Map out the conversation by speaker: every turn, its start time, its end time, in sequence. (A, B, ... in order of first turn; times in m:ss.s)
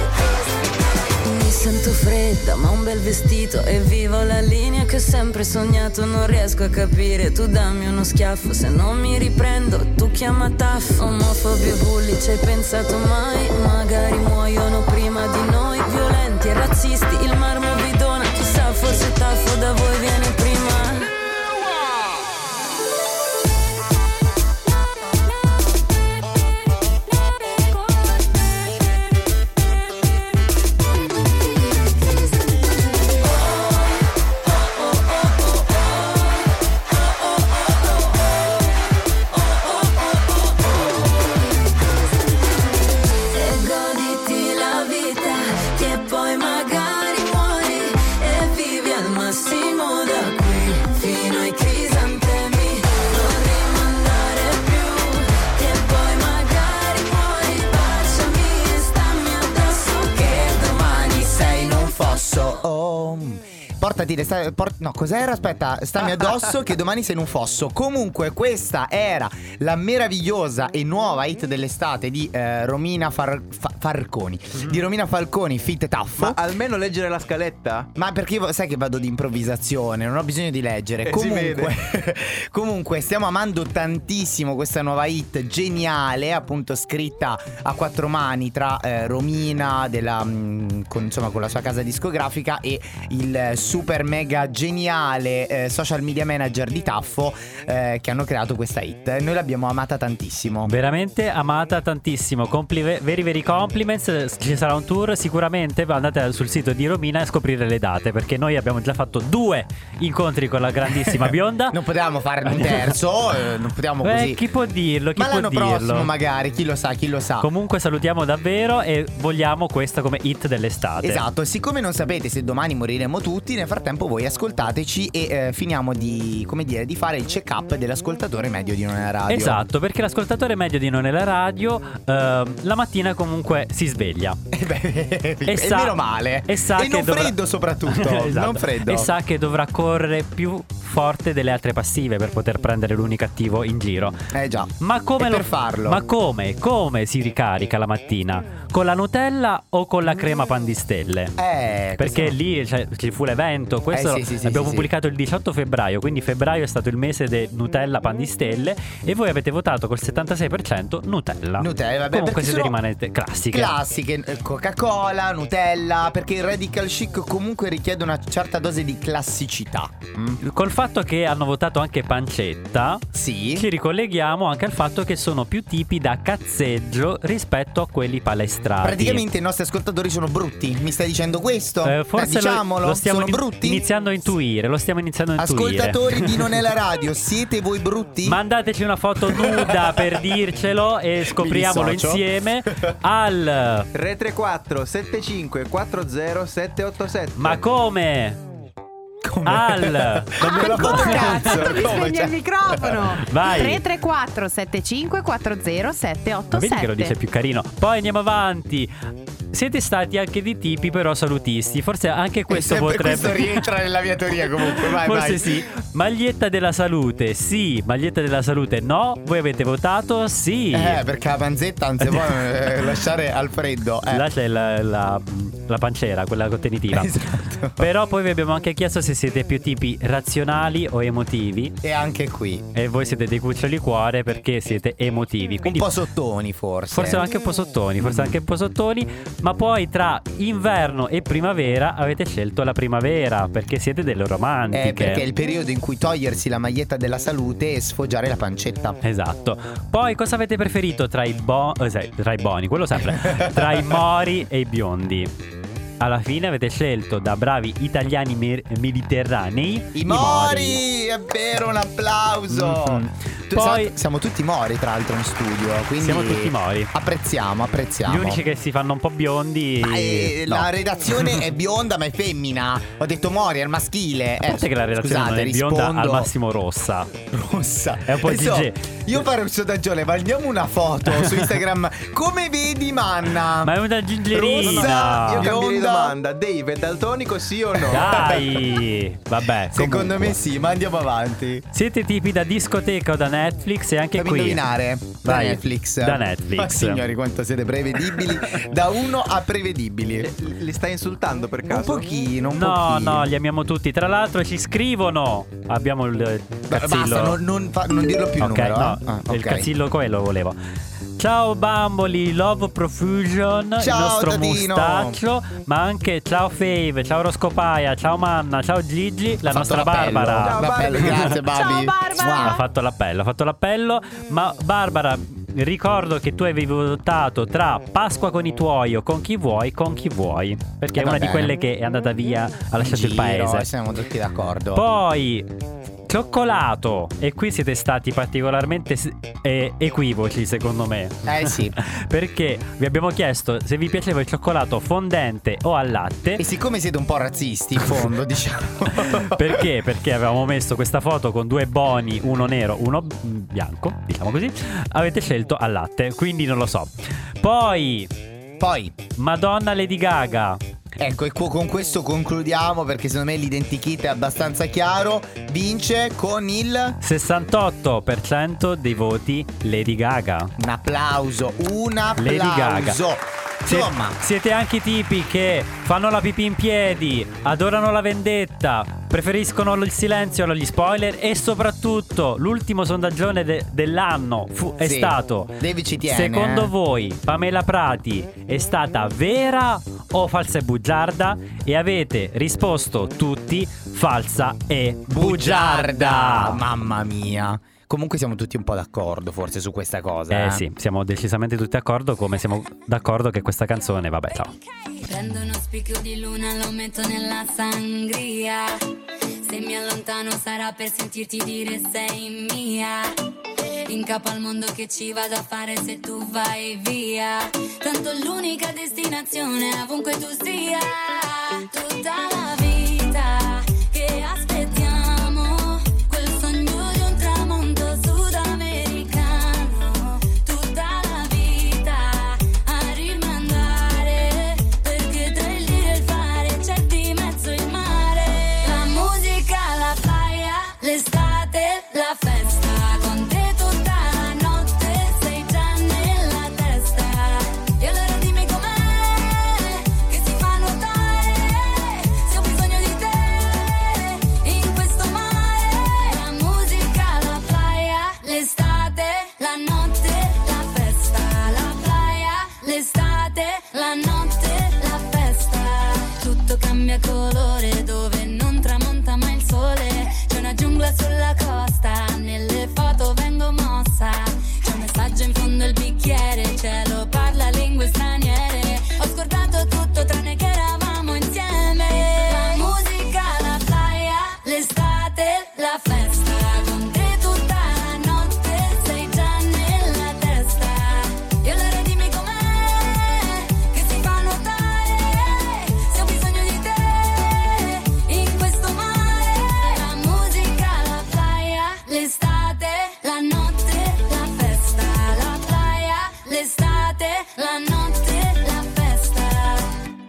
0:01.1-0:21.1 A
0:43.3-1:02.1 A
1:01.1-1:16.4 B
1:16.2-1:17.9 C
1:17.9-1:40.7 B
1:21.0-1:21.7 C
1:40.6-1:51.8 D
1:50.9-1:54.4 B
1:52.4-1:52.9 D
1:54.0-1:56.1 D
1:55.2-1:57.5 B
1:57.4-2:01.2 D
2:01.0-2:09.6 B
2:09.3-2:14.4 D
2:14.5-2:19.1 B
2:15.5-2:17.4 D
2:17.9-2:24.2 D
2:24.3-2:26.0 B
2:24.8-2:31.3 D
2:31.4-2:32.4 B
2:32.0-2:43.7 D
2:33.9-2:34.9 B
2:41.6-2:42.8 B
2:43.5-2:50.4 B
2:50.4-2:59.2 D
2:53.1-2:53.6 B
2:58.8-3:03.8 B
3:01.8-3:06.5 D
3:05.4-3:08.4 B
3:08.2-3:13.9 D
3:09.3-3:10.0 B
3:11.2-3:12.3 B
3:13.9-3:17.6 C
3:17.4-3:18.4 D
3:19.2-3:22.9 B
3:19.4-3:21.5 D
3:20.4-3:27.2 E
3:23.2-3:23.8 D
3:26.5-3:28.9 D
3:29.5-3:33.7 D
3:32.5-3:35.6 B
3:34.7-3:41.0 D
3:40.7-3:44.2 B
3:42.0-3:42.4 D
3:44.1-3:47.2 D
3:46.9-3:47.9 B
3:47.8-3:51.8 D
3:51.8-3:52.6 B
3:52.7-3:55.9 D
3:55.6-3:57.3 B
3:56.9-4:05.2 D
3:58.0-3:58.4 B
4:04.7-4:09.0 B
4:09.0-4:15.3 D
4:13.3-4:13.8 B
4:16.0-4:20.8 D
4:19.9-4:28.4 B
4:22.5-4:23.9 D
4:26.0-4:26.9 D
4:28.0-4:30.7 D
4:29.8-4:36.3 B
4:34.4-4:37.1 D
4:37.3-4:43.7 B
4:38.0-4:38.8 D
4:43.6-4:45.5 D
4:44.3-4:46.2 B
4:44.5-4:48.4 C
4:47.9-4:50.4 D
4:49.7-4:51.6 B
4:51.7-4:54.6 D
4:54.2-5:00.3 B
4:55.2-4:57.0 D
5:00.2-5:02.1 C
5:01.7-5:03.3 B
5:02.5-5:07.4 D
5:06.7-5:09.7 B
5:08.4-5:10.6 D
5:11.2-5:21.4 D
5:13.8-5:15.2 B
5:19.5-5:22.6 B
5:20.4-5:21.4 C
5:21.4-5:22.6 E
5:22.4-5:33.7 D
5:31.0-5:31.5 B
5:32.8-5:34.8 B
5:34.7-5:35.5 D
5:36.1-5:46.4 D
5:41.2-5:41.8 B
5:46.4-5:49.7 B
5:48.9-5:58.1 D
5:58.6-5:59.0 B
5:59.2-6:00.6 D
6:01.0-6:07.0 B
6:07.0-6:10.5 D
6:10.6-6:14.2 B
6:12.2-6:13.0 D
6:13.6-6:36.6 D
6:24.8-6:26.7 B
6:35.1-6:40.6 B
6:40.3-6:44.5 D
6:45.0-6:48.8 F
6:49.4-6:53.1 F
6:53.8-8:29.7 F